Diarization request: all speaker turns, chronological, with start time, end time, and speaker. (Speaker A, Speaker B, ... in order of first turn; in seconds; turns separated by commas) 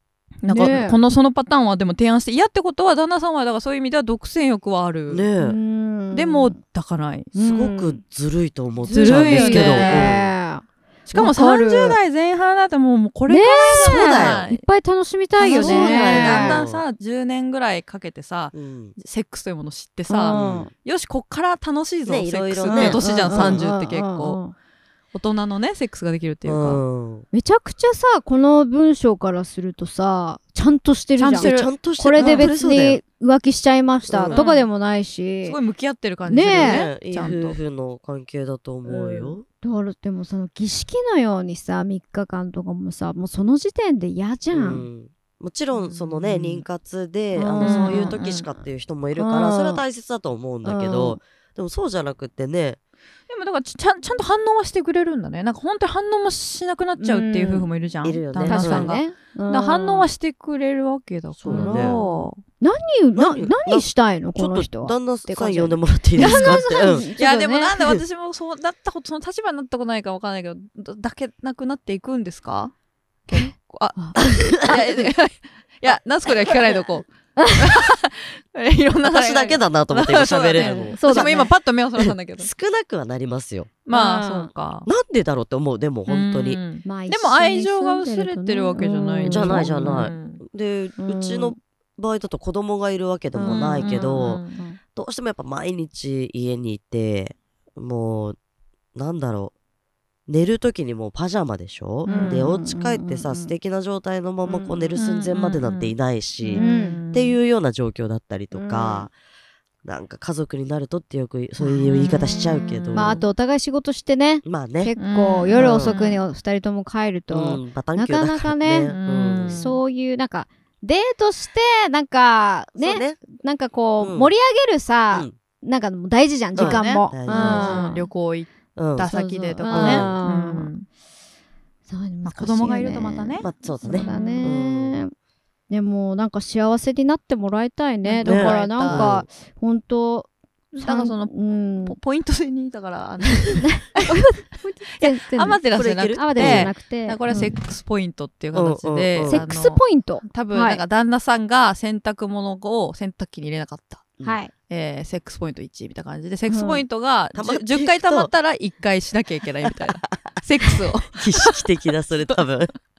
Speaker A: 0.4-5.2, Speaker B: 0.5-1.0, Speaker C: 5.1-5.6, Speaker B: 5.4-6.5, Speaker A: 6.1-7.3, Speaker B: 7.3-8.0, Speaker C: 7.3-10.3, Speaker B: 8.8-12.0, Speaker A: 8.9-10.2, Speaker A: 11.1-14.6, Speaker B: 13.3-16.6, Speaker C: 13.7-14.4, Speaker A: 15.4-24.4, Speaker C: 15.5-16.8, Speaker C: 18.5-18.9, Speaker B: 20.1-20.7, Speaker C: 20.3-20.7, Speaker C: 22.0-23.6, Speaker B: 22.6-24.5, Speaker A: 25.1-26.8, Speaker C: 26.4-27.2, Speaker B: 27.3-35.5, Speaker A: 31.2-32.5, Speaker C: 31.3-33.0, Speaker C: 34.1-34.4, Speaker A: 34.3-34.7, Speaker A: 35.4-37.6, Speaker B: 36.3-36.9, Speaker C: 36.5-39.4, Speaker B: 38.9-44.8, Speaker C: 44.5-52.8, Speaker A: 45.7-46.6, Speaker B: 47.3-48.2, Speaker A: 47.6-48.5, Speaker B: 49.1-49.8, Speaker B: 50.6-51.2, Speaker A: 53.3-62.4, Speaker B: 57.0-57.7, Speaker C: 58.0-58.9, Speaker B: 58.5-60.1, Speaker C: 61.4-62.0, Speaker B: 61.5-68.0, Speaker C: 63.1-67.1, Speaker A: 66.2-72.7, Speaker A: 73.3-82.5, Speaker B: 73.3-75.0, Speaker C: 74.2-74.7, Speaker B: 77.4-77.8, Speaker C: 79.1-81.3, Speaker B: 80.6-81.5, Speaker C: 82.0-83.7, Speaker A: 83.8-84.9, Speaker B: 83.9-84.5, Speaker C: 84.8-86.6, Speaker A: 86.1-90.4, Speaker B: 86.8-90.0, Speaker C: 89.2-94.4, Speaker B: 91.0-91.6, Speaker B: 93.3-94.8, Speaker A: 93.5-94.6, Speaker C: 94.9-98.3, Speaker C: 98.9-99.5, Speaker C: 100.3-109.1, Speaker A: 102.0-102.5, Speaker B: 102.0-103.5, Speaker B: 104.4-105.0, Speaker A: 105.0-107.3, Speaker B: 106.5-107.0, Speaker B: 108.5-109.1, Speaker C: 109.8-113.2, Speaker B: 111.6-119.0, Speaker A: 111.9-113.2, Speaker C: 114.4-114.9, Speaker A: 115.0-116.2, Speaker C: 115.5-115.9, Speaker C: 117.3-119.6, Speaker A: 118.8-119.8, Speaker B: 119.5-128.1, Speaker C: 122.8-123.2, Speaker C: 124.0-124.3, Speaker C: 126.5-127.8, Speaker A: 126.5-130.8, Speaker C: 128.8-129.1, Speaker B: 129.1-130.7, Speaker C: 129.6-130.2, Speaker B: 131.9-135.1, Speaker A: 132.2-134.5, Speaker C: 133.4-135.0, Speaker B: 135.7-141.9, Speaker A: 138.0-139.1, Speaker C: 138.2-139.2, Speaker A: 140.7-144.2, Speaker B: 143.6-145.6, Speaker A: 144.9-154.1, Speaker C: 145.8-146.7, Speaker B: 146.1-147.5, Speaker C: 148.5-149.4, Speaker B: 149.2-150.8, Speaker B: 154.2-154.5, Speaker A: 154.7-161.7, Speaker B: 156.5-156.8, Speaker C: 157.3-158.3, Speaker C: 159.7-160.2, Speaker C: 161.1-162.7